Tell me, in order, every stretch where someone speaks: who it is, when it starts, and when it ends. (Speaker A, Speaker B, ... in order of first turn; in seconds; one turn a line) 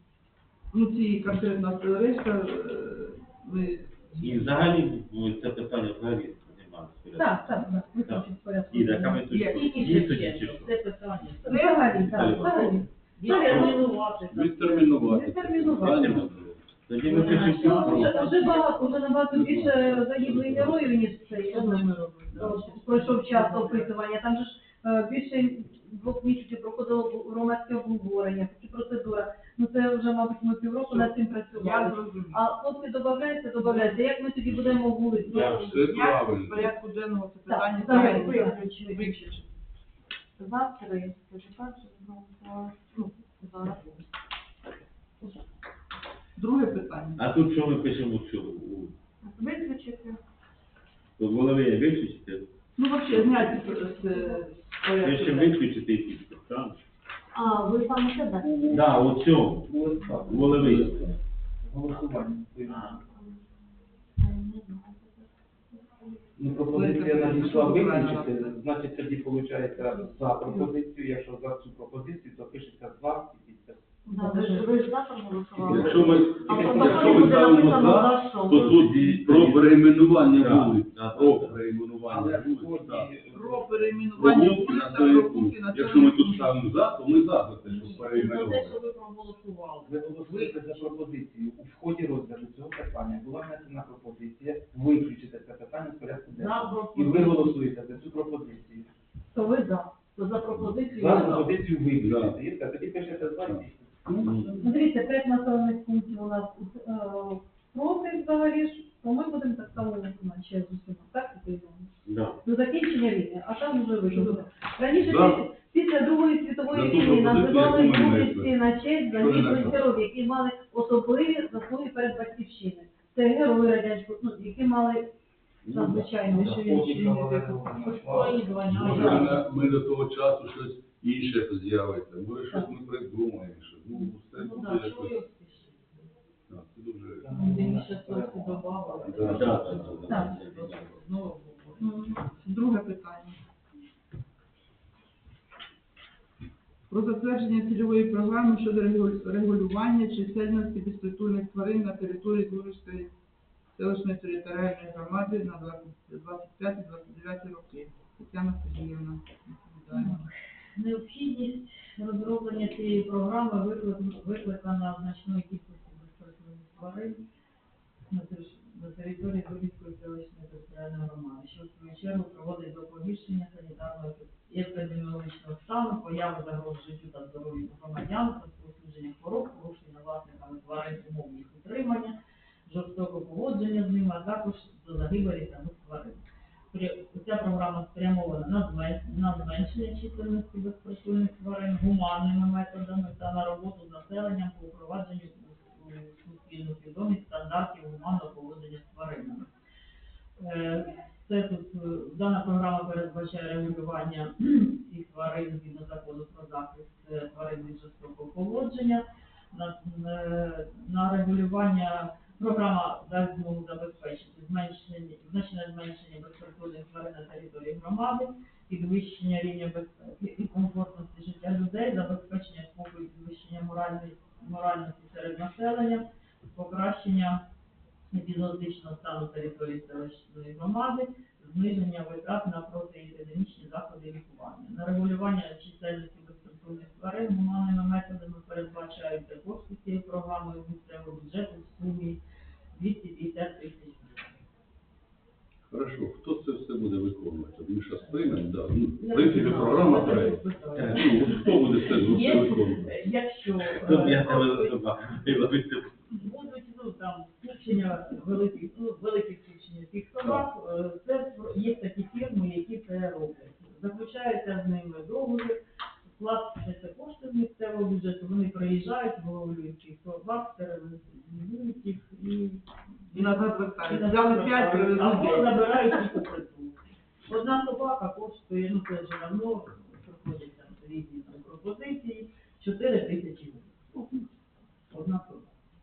Speaker A: 0.7-4.5
Speaker B: 4.2-10.7
Speaker C: 7.2-9.3
Speaker A: 9.3-10.0
Speaker D: 9.5-11.8
Speaker C: 11.4-14.0
Speaker A: 11.5-12.5
Speaker B: 11.9-13.8
Speaker D: 13.2-15.0
Speaker E: 14.3-16.6
Speaker C: 14.9-16.2
Speaker B: 15.8-16.3
Speaker B: 16.9-18.9
Speaker C: 17.1-35.8
Speaker D: 17.1-18.3
Speaker E: 17.7-18.3
Speaker E: 19.3-21.2
Speaker A: 21.5-21.9
Speaker D: 21.5-23.9
Speaker F: 22.4-22.6
Speaker A: 30.8-32.5
Speaker A: 33.6-34.0
Speaker A: 35.3-39.5
Speaker B: 35.3-35.8
Speaker E: 35.4-36.7
Speaker C: 37.5-39.4
Speaker F: 37.8-38.6
Speaker F: 40.4-43.9
Speaker A: 46.4-47.2
Speaker B: 47.2-48.9
Speaker F: 49.2-50.2
Speaker B: 51.2-52.5
Speaker A: 52.8-55.6
Speaker F: 53.3-54.4
Speaker B: 55.0-56.8
Speaker F: 57.3-58.9
Speaker B: 58.7-61.1
Speaker G: 59.7-61.1
Speaker E: 60.5-61.1
Speaker G: 61.6-62.9
Speaker B: 62.7-63.0
Speaker F: 62.9-63.4
Speaker F: 64.2-66.1
Speaker G: 66.4-73.8
Speaker A: 66.7-68.5
Speaker F: 74.1-78.9
Speaker C: 74.2-74.7
Speaker G: 75.7-77.4
Speaker E: 75.7-83.1
Speaker B: 78.5-81.6
Speaker G: 82.1-84.5
Speaker A: 83.3-86.6
Speaker E: 84.2-88.8
Speaker D: 87.7-91.0
Speaker G: 89.8-98.9
Speaker D: 96.3-97.6
Speaker C: 99.3-100.0
Speaker D: 100.2-101.5
Speaker G: 100.8-104.3
Speaker E: 102.0-102.4
Speaker E: 103.5-104.4
Speaker C: 104.6-111.9
Speaker B: 112.1-112.4
Speaker C: 112.4-125.1
Speaker A: 114.1-114.4
Speaker E: 114.9-115.5
Speaker E: 116.7-118.5
Speaker E: 119.1-119.9
Speaker C: 125.7-127.1
Speaker G: 125.7-129.4
Speaker A: 126.7-127.7
Speaker D: 127.8-129.6
Speaker E: 128.7-135.2
Speaker D: 134.4-136.1
Speaker E: 136.5-137.3
Speaker G: 137.2-139.6
Speaker D: 137.3-141.9
Speaker E: 139.1-140.0
Speaker B: 139.2-140.9
Speaker A: 139.9-143.4
Speaker C: 140.1-140.4
Speaker A: 146.9-153.1
Speaker A: 153.7-160.3
Speaker D: 159.9-160.2
Speaker D: 160.8-167.2
Speaker D: 168.1-199.5
Speaker D: 200.4-227.4
Speaker D: 228.1-242.2
Speaker D: 242.7-244.4
Speaker E: 245.7-252.9
Speaker D: 249.0-254.7
Speaker B: 253.7-256.1
Speaker D: 256.1-283.9
Speaker A: 273.1-276.0
Speaker A: 283.9-284.2
Speaker D: 284.9-285.5